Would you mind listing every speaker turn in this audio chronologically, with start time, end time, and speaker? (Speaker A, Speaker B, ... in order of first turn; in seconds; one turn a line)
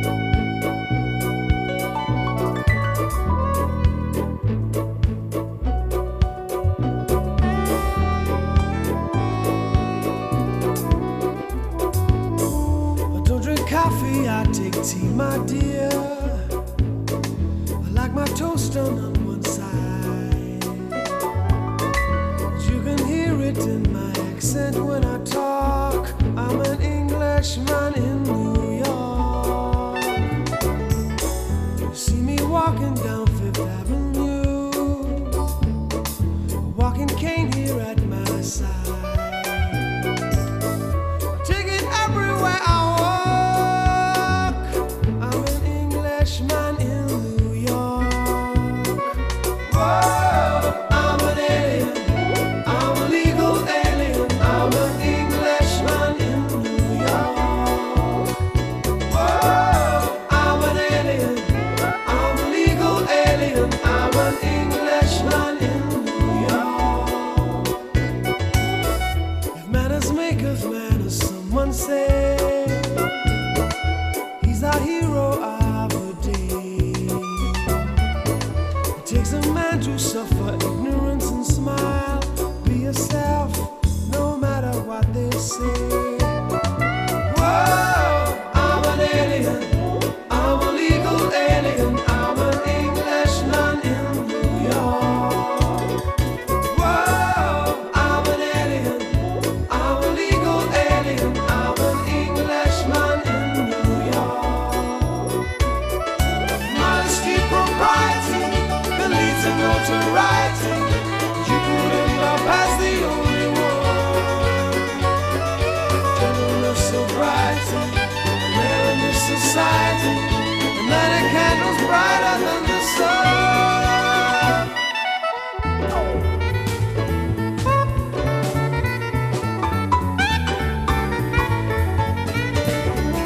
Speaker A: 13.1-16.5
Speaker A: 17.8-20.9
Speaker A: 22.5-30.2
Speaker A: 31.9-35.5
Speaker A: 36.6-39.9
Speaker A: 41.3-49.1
Speaker A: 49.6-58.3
Speaker A: 59.0-67.8
Speaker A: 69.5-73.1
Speaker A: 74.4-77.7
Speaker A: 79.0-86.4
Speaker A: 87.2-95.9
Speaker A: 96.6-105.4
Speaker A: 106.6-115.0
Speaker A: 116.2-124.6